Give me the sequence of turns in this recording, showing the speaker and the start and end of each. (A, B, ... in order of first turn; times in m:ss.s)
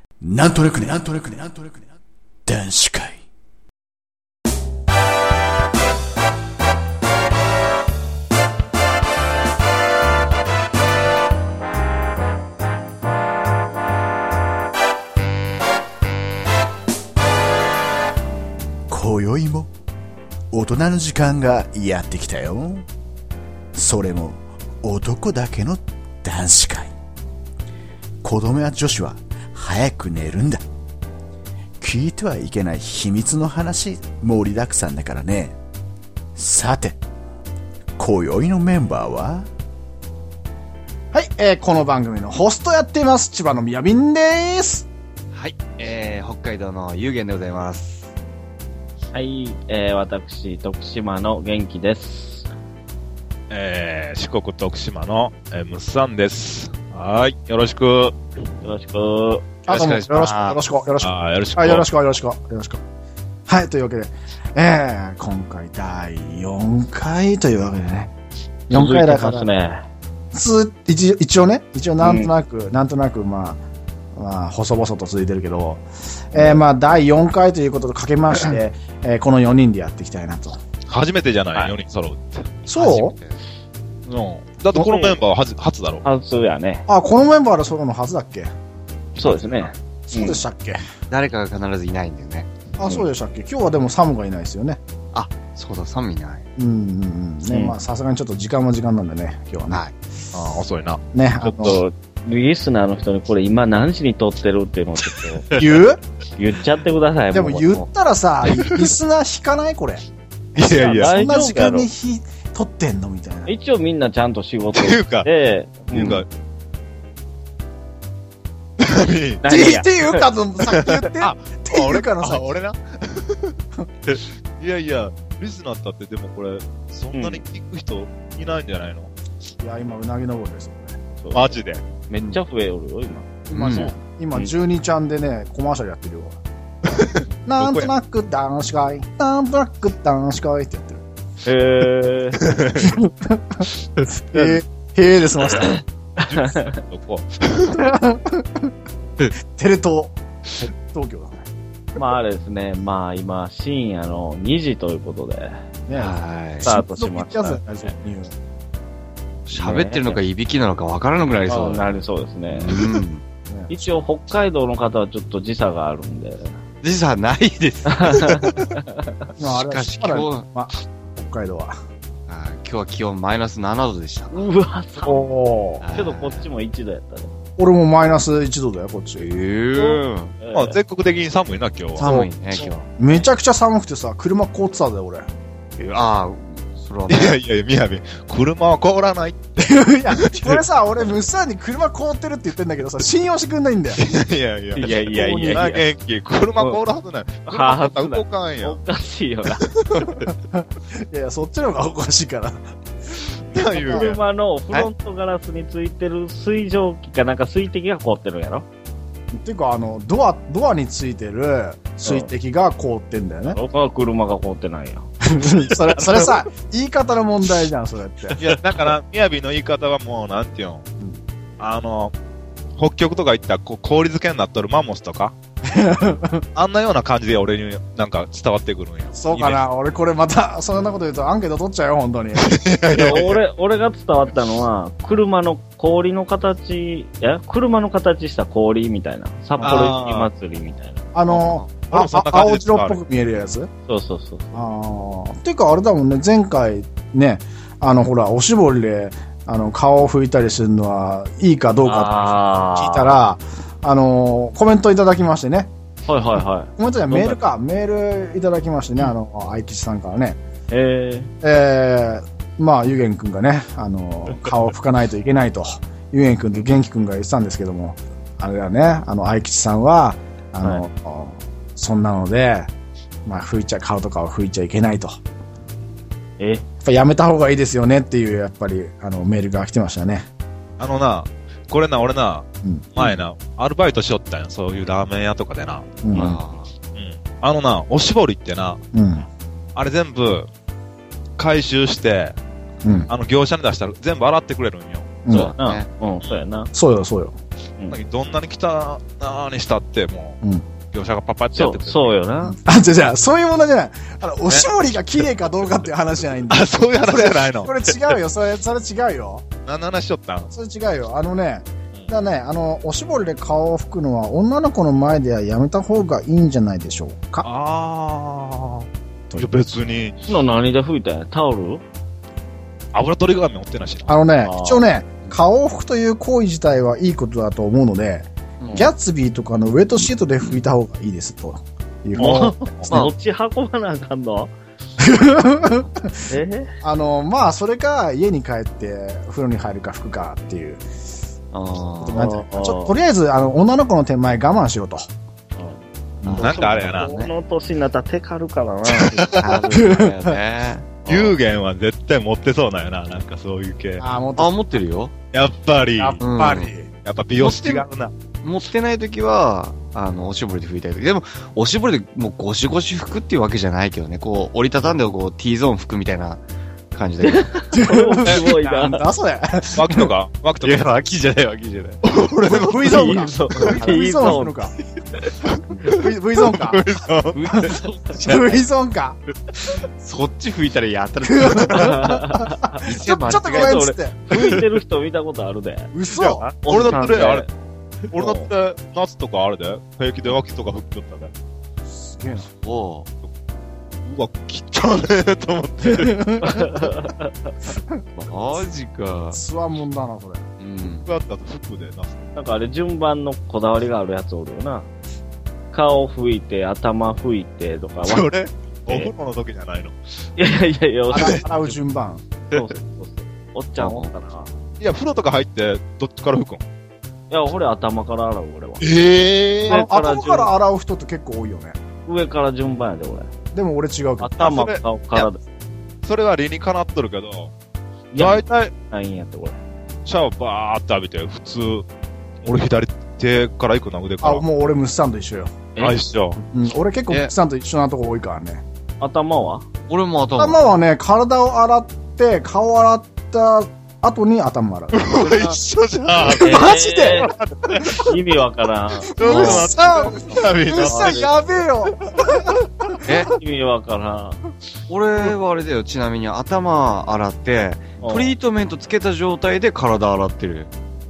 0:00.2-0:03.2 A
0:18.9-0:19.7 A
0:20.5-0:22.8 A
0:23.7-0:26.9 A
0:28.2-0:30.6 A
0:31.8-0:35.6 A
0:36.4-0:37.0 A
0:38.0-0:39.5 A
0:41.1-0:44.9 B
0:45.3-0:48.1 C
0:49.1-0:52.5 D
0:53.5-0:58.1 E
0:58.6-0:59.5 D
0:59.6-1:00.6 C
0:59.7-1:02.8 B
1:01.0-1:01.8 E
1:03.5-1:08.1 B
1:08.7-1:09.5 B
1:08.7-1:09.8 D
1:10.3-1:13.6 B
1:12.0-1:12.3 D
1:14.1-1:20.6 B
1:20.9-1:22.5 E
1:22.7-1:23.1 B
1:22.7-1:23.4 C
1:24.1-1:26.0 E
1:24.7-1:25.2 D
1:26.0-1:26.8 D
1:26.9-1:28.5 B
1:29.2-1:30.4 D
1:29.2-1:29.5 B
1:30.1-1:30.8 B
1:31.1-1:32.5 C
1:32.8-1:34.8 B
1:35.1-1:36.4 C
1:36.6-1:39.8 B
1:37.5-1:37.8 D
1:40.3-1:41.0 E
1:41.1-1:41.8 B
1:41.5-1:45.4 D
1:45.5-1:46.0 B
1:46.4-1:47.9 D
1:47.3-1:50.0 B
1:48.5-1:48.9 E
1:50.5-1:51.2 E
1:50.7-1:51.9 D
1:50.7-1:53.5 B
1:53.4-1:56.2 D
1:54.7-1:55.3 E
1:55.9-1:56.3 E
1:58.8-1:59.4 E
1:59.4-2:00.2 D
1:59.4-2:02.5 B
2:00.6-2:03.5 E
2:04.6-2:09.1 E
2:07.1-2:07.4 D
2:09.6-2:11.0 B
2:11.2-2:13.4 D
2:11.3-2:11.8 E
2:13.5-2:16.4 B
2:13.5-2:13.9 C
2:16.9-2:17.9 E
2:17.4-2:21.0 B
2:21.4-2:22.4 D
2:22.4-2:23.0 E
2:22.8-2:23.7 B
2:24.3-2:25.8 B
2:24.3-2:24.6 D
2:26.2-2:26.7 D
2:26.2-2:27.8 E
2:27.6-2:28.7 B
2:29.4-2:31.5 B
2:32.0-2:35.6 D
2:35.9-2:38.3 B
2:35.9-2:36.7 C
2:36.6-2:37.6 D
2:39.4-2:41.8 C
2:39.5-2:40.2 D
2:41.5-2:42.9 D
2:42.5-2:43.2 C
2:43.5-2:44.0 B
2:43.7-2:46.6 D
2:46.8-2:48.7 C
2:47.9-2:49.3 D
2:49.4-2:51.8 B
2:49.5-2:50.5 C
2:52.3-2:54.3 C
2:54.3-2:55.3 D
2:55.0-2:55.8 B
2:55.8-2:56.5 C
2:55.9-2:57.3 D
2:57.6-2:59.3 B
2:59.2-3:00.4 C
2:59.8-3:00.8 D
3:00.5-3:02.1 E
3:02.0-3:02.8 C
3:02.0-3:05.3 B
3:05.8-3:07.4 C
3:07.1-3:10.4 E
3:09.6-3:14.0 B
3:14.0-3:18.8 E
3:14.8-3:15.8 D
3:17.4-3:19.6 D
3:19.6-3:20.1 E
3:20.3-3:22.7 B
3:23.5-3:24.2 E
3:23.7-3:28.7 D
3:23.7-3:24.2 B
3:29.3-3:33.6 B
3:32.0-3:32.3 D
3:33.4-3:35.1 D
3:35.2-3:38.4 B
3:36.0-3:36.2 E
3:38.4-3:40.8 E
3:41.6-3:42.1 E
3:42.8-3:45.3 E
3:45.6-3:46.4 B
3:46.5-3:49.6 E
3:49.1-3:53.3 B
3:52.4-3:53.4 E
3:52.9-4:01.0 D
3:59.6-4:00.3 E
3:59.6-3:59.9 B
4:01.1-4:03.7 B
4:01.3-4:01.7 C
4:01.9-4:03.0 E
4:03.9-4:04.5 D
4:04.5-4:15.7 B
4:11.8-4:13.1 D
4:16.0-4:17.4 D
4:16.8-4:20.4 B
4:20.7-4:21.3 D
4:21.4-4:32.7 B
4:33.2-4:35.2 B
4:36.4-4:36.6 D
4:36.8-4:40.3 B
4:40.8-4:45.9 E
4:42.6-4:42.9 B
4:46.0-4:46.4 B
4:46.1-4:46.7 C
4:46.9-4:48.8 E
4:48.9-4:49.3 B
4:49.8-4:50.5 E
4:51.4-4:52.4 E
4:52.8-4:53.1 B
4:53.1-4:55.2 E
4:55.2-4:55.5 B
4:55.3-4:55.8 C
4:55.3-4:56.7 D
4:56.7-4:57.4 B
4:57.9-5:00.4 E
5:00.4-5:00.7 B
5:00.9-5:02.1 E
5:01.5-5:02.6 D
5:02.4-5:09.5 B
5:06.5-5:08.1 E
5:09.6-5:10.5 E
5:10.5-5:17.5 B
5:17.4-5:20.2 E
5:20.2-5:21.8 D
5:22.9-5:24.2 E
5:24.1-5:32.6 B
5:24.4-5:24.8 D
5:28.6-5:28.9 C
5:28.6-5:28.9 D
5:32.2-5:32.9 E
5:32.2-5:34.5 D
5:35.0-5:36.2 B
5:36.2-5:36.7 D
5:36.8-5:40.8 B
5:41.5-5:42.3 C
5:42.0-5:45.1 B
5:42.1-5:43.0 D
5:45.5-5:45.8 D
5:46.2-5:46.9 B
5:46.2-5:47.3 C
5:46.3-5:47.1 E
5:46.7-5:49.6 D
5:49.4-5:51.4 C
5:49.6-5:50.4 B
5:51.0-5:54.0 E
5:54.0-5:54.5 B
5:54.4-5:55.1 C
5:55.3-5:56.2 E
5:56.0-5:56.9 B
5:56.2-5:56.7 C
5:57.0-5:58.1 E
5:57.4-5:57.9 C
5:58.4-6:07.6 C
6:07.2-6:09.1 D
6:07.7-6:10.1 B
6:09.7-6:10.9 E
6:10.6-6:12.0 C
6:12.0-6:12.9 E
6:12.5-6:14.8 B
6:12.8-6:14.6 D
6:13.6-6:14.0 C
6:15.8-6:16.8 B
6:16.4-6:17.6 E
6:17.3-6:18.6 C
6:17.5-6:19.2 B
6:19.6-6:22.2 C
6:21.2-6:24.6 B
6:21.7-6:22.8 D
6:22.8-6:24.6 C
6:23.4-6:27.5 D
6:25.9-6:26.5 B
6:26.2-6:27.4 E
6:28.1-6:31.3 E
6:28.2-6:28.4 D
6:31.9-6:32.5 B
6:32.5-6:33.1 C
6:34.0-6:36.6 E
6:35.8-6:36.6 B
6:36.4-6:37.5 D
6:38.2-6:39.4 C
6:39.3-6:40.5 B
6:40.6-6:41.1 C
6:41.0-6:42.2 E
6:42.4-6:44.9 D
6:45.7-6:48.3 D
6:48.0-6:49.9 E
6:48.9-6:49.1 D
6:50.4-6:51.7 D
6:51.1-6:52.2 B
6:52.5-6:54.5 D
6:53.8-6:54.1 C
6:54.8-6:56.6 E
6:57.3-6:58.8 D
6:58.8-6:59.8 E
6:59.6-7:01.8 B
6:59.6-7:00.5 D
7:02.0-7:03.3 D
7:03.5-7:04.5 B
7:04.2-7:05.4 D
7:04.4-7:05.3 E
7:06.0-7:07.5 E
7:08.1-7:09.6 D
7:08.1-7:08.7 E
7:10.0-7:11.8 E
7:12.4-7:14.4 E
7:14.2-7:15.6 B
7:15.8-7:16.4 E
7:16.5-7:18.6 B
7:19.0-7:19.6 D
7:19.9-7:20.6 C
7:20.4-7:25.1 B
7:24.9-7:28.1 E
7:25.2-7:25.5 C
7:26.3-7:27.3 B
7:26.4-7:27.3 D
7:27.9-7:29.6 D
7:29.1-7:33.2 B
7:29.2-7:31.3 E
7:33.0-7:33.3 C
7:33.2-7:34.4 D
7:34.9-7:40.7 C
7:38.0-7:38.3 D